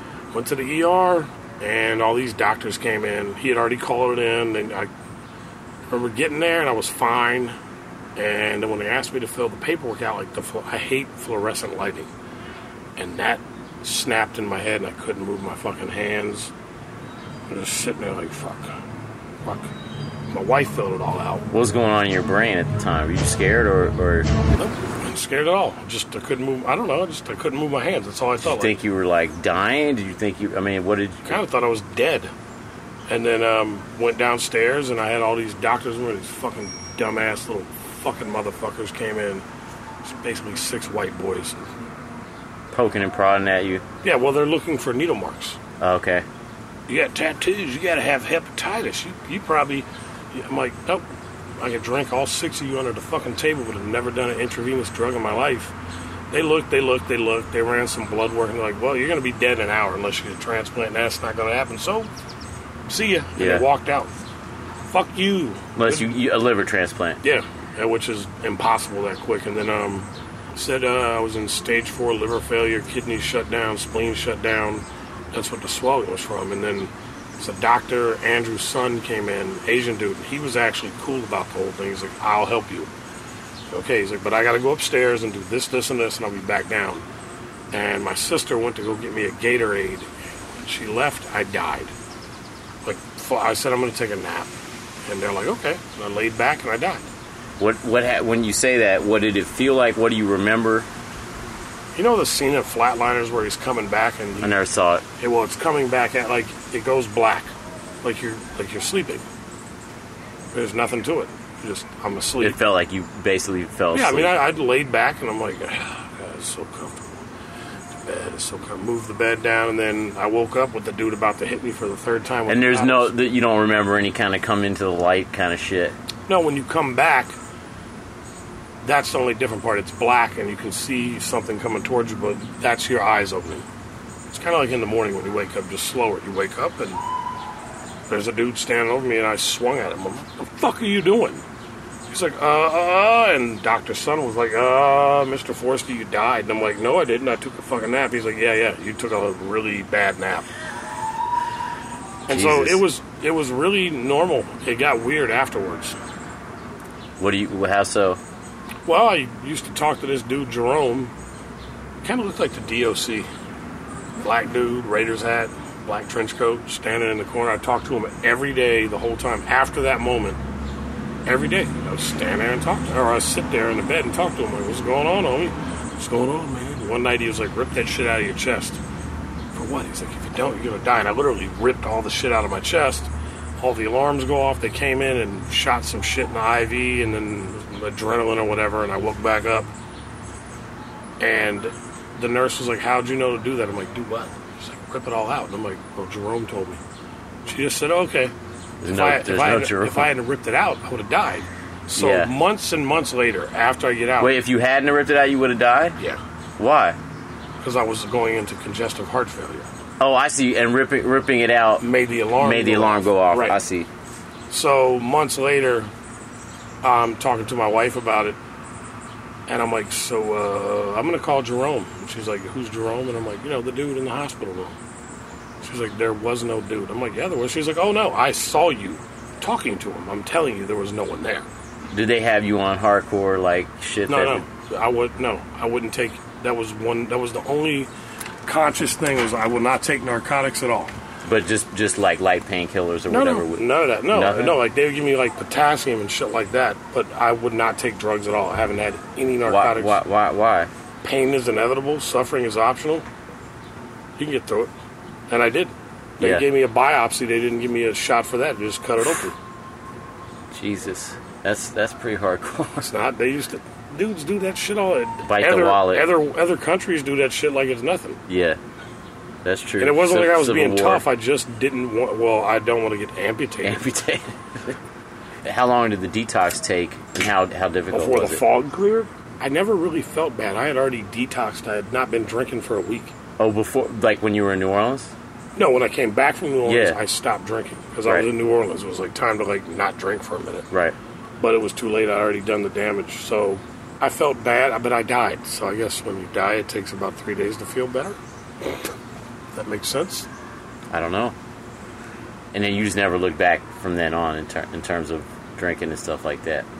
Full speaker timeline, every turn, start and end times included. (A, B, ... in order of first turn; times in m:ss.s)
0:00.3-0:04.9 A
0:05.9-0:07.6 A
0:08.2-0:12.1 A
0:13.0-0:16.5 A
0:17.5-0:18.7 A
0:19.4-0:19.7 A
0:20.3-0:21.4 A
0:21.5-0:24.3 B
0:24.5-0:28.8 A
0:28.4-0:31.4 B
0:31.3-0:32.3 A
0:33.1-0:39.4 A
0:40.0-0:41.7 A
0:42.7-0:43.8 B
0:44.0-0:45.6 A
0:45.8-0:46.2 B
0:46.9-0:51.0 A
0:51.6-0:55.7 A
0:56.3-1:02.1 A
1:02.9-1:04.1 A
1:03.4-1:03.6 B
1:04.9-1:06.1 A
1:05.8-1:07.2 B
1:07.2-1:22.9 A
1:23.7-1:27.0 A
1:27.7-1:31.9 A
1:32.8-1:34.5 A
1:35.0-1:37.0 A
1:37.6-1:40.9 B
1:41.9-1:44.5 A
1:44.4-1:45.0 B
1:45.2-1:49.2 A
1:50.5-1:52.6 A
1:52.4-1:54.3 B
1:53.9-1:57.2 A
1:58.0-2:03.1 A
2:02.5-2:06.0 B
2:06.3-2:07.3 A
2:08.8-2:13.6 A
2:14.3-2:17.0 A
2:18.1-2:21.4 A
2:22.1-2:30.4 A
2:32.3-2:36.0 A
2:32.3-2:32.8 B
2:37.2-2:38.2 B
2:38.8-2:41.1 A
2:42.0-2:43.3 A
2:44.2-2:50.4 A
2:51.2-2:58.8 A
2:59.5-3:09.7 A
3:11.2-3:16.8 A
3:17.4-3:18.3 A
3:18.8-3:20.1 B
3:18.8-3:24.3 A
3:22.0-3:22.3 B
3:24.2-3:26.0 B
3:26.6-3:27.0 B
3:27.6-3:29.7 A
3:30.0-3:31.8 B
3:31.8-3:33.6 A
3:32.4-3:33.9 B
3:34.5-3:35.9 A
3:36.8-3:38.4 A
3:39.5-3:44.8 A
3:45.6-3:51.4 A
3:51.9-3:54.4 B
3:54.1-3:57.9 A
3:58.5-4:00.9 A
4:01.2-4:04.6 B
4:03.1-4:10.0 A
4:09.4-4:10.7 B
4:11.0-4:13.0 A
4:14.2-4:14.7 A
4:15.3-4:19.4 A
4:16.2-4:16.4 B
4:20.5-4:22.9 B
4:22.8-4:28.2 A
4:25.2-4:26.1 B
4:28.3-4:28.6 B
4:29.4-4:31.0 B
4:29.8-4:33.8 A
4:33.6-4:34.8 B
4:35.4-4:38.4 B
4:37.9-4:43.1 A
4:43.4-4:45.1 B
4:45.6-4:50.7 A
4:46.6-4:47.0 B
4:51.4-4:58.2 A
4:59.5-5:00.3 A
5:00.9-5:01.3 B
5:02.5-5:06.7 B